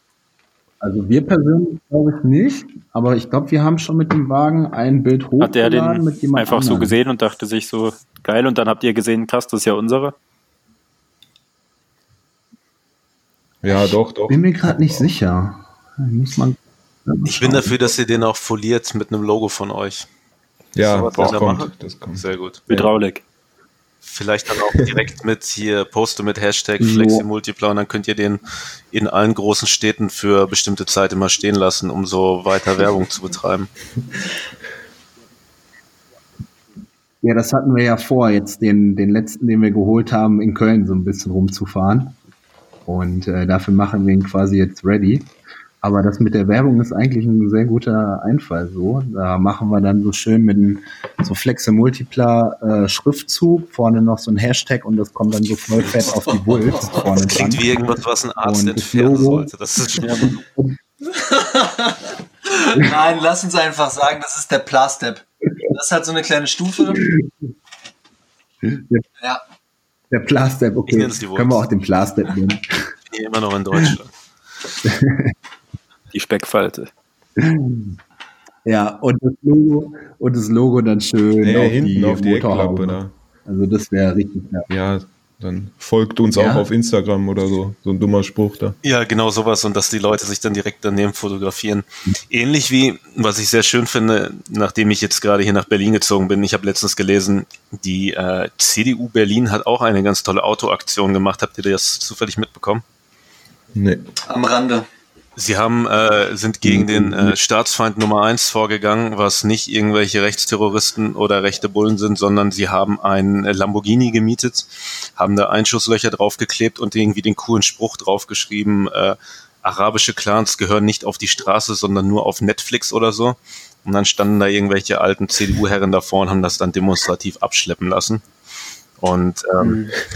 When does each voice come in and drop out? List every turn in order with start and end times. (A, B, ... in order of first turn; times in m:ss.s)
0:00.8-0:07.0 A
0:05.4-0:10.2 B
0:13.6-0:15.1 C
0:13.8-0:17.7 A
0:17.3-0:20.1 D
0:20.8-0:22.9 C
0:20.8-0:22.6 D
0:22.7-0:23.2 B
0:24.0-0:33.7 D
0:26.8-0:27.2 A
0:37.2-0:42.2 A
0:42.9-0:45.3 A
0:45.8-0:59.5 A
0:55.9-0:57.4 E
0:57.2-1:00.3 D
1:00.0-1:00.3 B
1:00.2-1:00.8 A
1:01.1-1:07.0 E
1:06.9-1:07.3 A
1:08.6-1:09.0 A
1:10.1-1:12.9 A
1:10.9-1:11.6 D
1:13.1-1:14.1 D
1:14.8-1:15.3 A
1:16.1-1:16.9 B
1:17.4-1:17.9 A
1:18.6-1:24.7 A
1:21.4-1:23.1 C
1:24.7-1:28.8 C
1:26.3-1:26.7 A
1:28.8-1:42.8 D
1:43.8-1:44.1 C
1:44.3-1:44.9 E
1:45.4-2:08.2 D
2:09.0-2:09.8 D
2:09.6-2:09.9 B